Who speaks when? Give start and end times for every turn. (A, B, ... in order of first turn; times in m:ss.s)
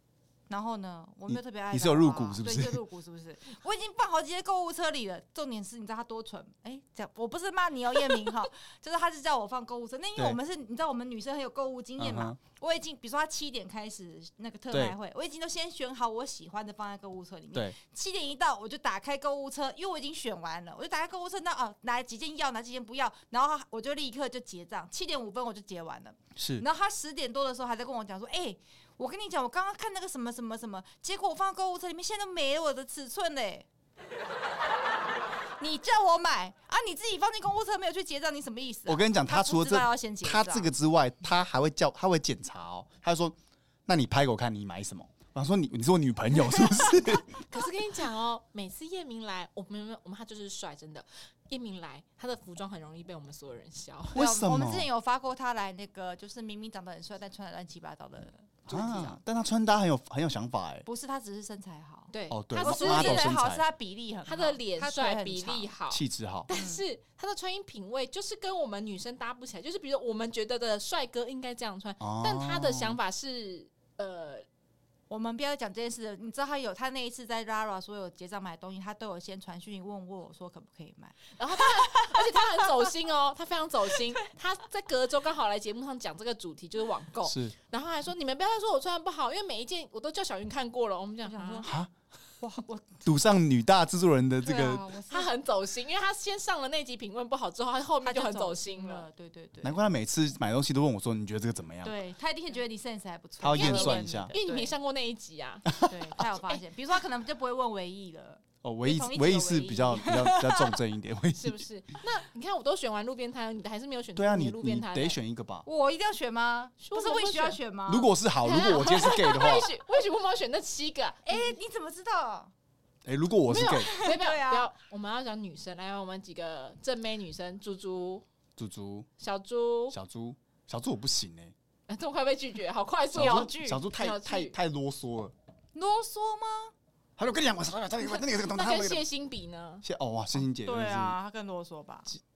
0:00.5-0:33.6 A
0:01.3-0:02.8 B
0:12.0-0:12.4 B
0:14.7-0:15.0 B
0:26.4-0:26.6 B
0:35.6-0:40.7 A
0:38.9-0:47.4 B
0:47.5-0:54.2 C
0:54.1-0:54.9 B
0:54.1-0:59.2 A
0:58.7-1:00.8 B
1:00.8-1:05.7 A
1:02.1-1:03.4 C
1:02.3-1:03.6 B
1:04.2-1:14.4 C
1:05.9-1:06.5 B
1:06.5-1:06.8 A
1:12.0-1:13.0 B
1:15.1-1:22.9 A
1:21.4-1:31.6 C
1:27.2-1:27.5 B
1:31.2-1:31.8 A
1:32.4-1:33.0 A
1:33.0-1:34.8 B
1:34.4-1:35.3 A
1:35.1-1:39.0 C
1:38.0-1:39.8 A
1:39.6-1:41.9 B
1:41.8-1:44.7 A
1:43.4-1:44.3 B
1:43.5-1:45.7 C
1:45.8-1:50.8 A
1:48.6-1:51.6 B
1:51.3-1:55.2 C
1:54.2-1:55.7 B
1:55.6-1:58.1 A
1:56.8-1:57.6 C
1:57.9-1:59.7 B
1:58.4-2:01.6 C
2:01.3-2:02.5 A
2:03.0-2:03.9 B
2:03.5-2:08.2 C
2:03.9-2:04.7 A
2:08.6-2:09.1 B
2:09.2-2:10.0 C
2:09.9-2:11.5 B
2:11.9-2:14.6 C
2:13.1-2:15.3 B
2:13.1-2:13.8 A
2:15.7-2:16.7 A
2:17.2-2:19.0 B
2:18.1-2:19.8 C
2:19.8-2:21.2 B
2:20.3-2:22.1 A